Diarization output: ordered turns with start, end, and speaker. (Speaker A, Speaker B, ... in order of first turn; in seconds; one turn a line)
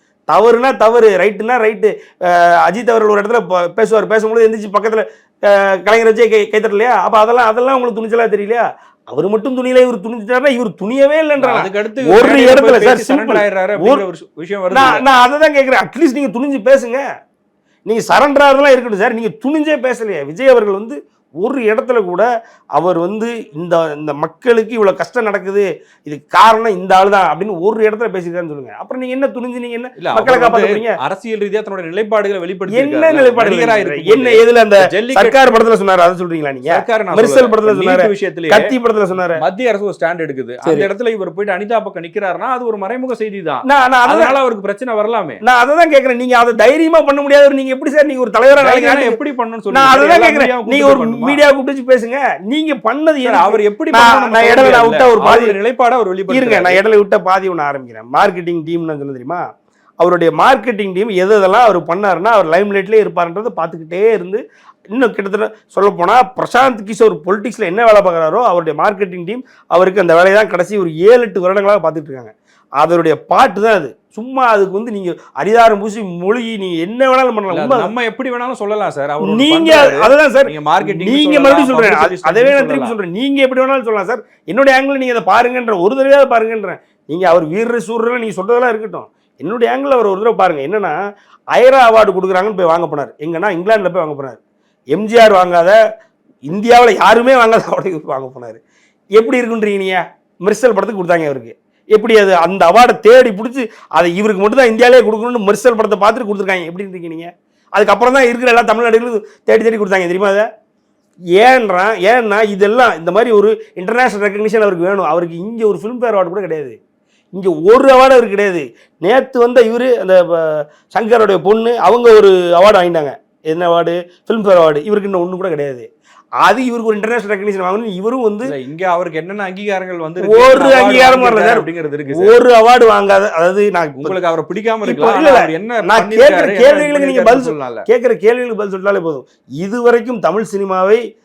Speaker A: 0.3-14.0
Speaker B: 11.4-15.0
Speaker A: 14.7-17.0
Speaker A: 17.9-31.0
Speaker B: 30.0-35.5
Speaker A: 32.7-39.4
Speaker B: 36.7-38.7
Speaker B: 39.4-45.4
Speaker A: 43.6-44.4
Speaker A: 45.4-49.2
Speaker B: 48.6-51.4
Speaker A: 49.7-55.5
Speaker B: 53.2-56.8
Speaker A: 56.3-59.4
Speaker A: 60.0-77.9
Speaker B: 77.5-83.0
Speaker A: 79.2-91.0
Speaker A: 91.5-94.4
Speaker A: 94.9-95.8
Speaker A: 96.5-98.6
Speaker A: 99.2-110.5
Speaker A: 111.4-116.8
Speaker A: 117.3-125.9
Speaker A: 126.4-128.5
Speaker B: 128.4-132.4
Speaker A: 130.2-134.2
Speaker B: 134.0-137.9
Speaker A: 134.8-141.0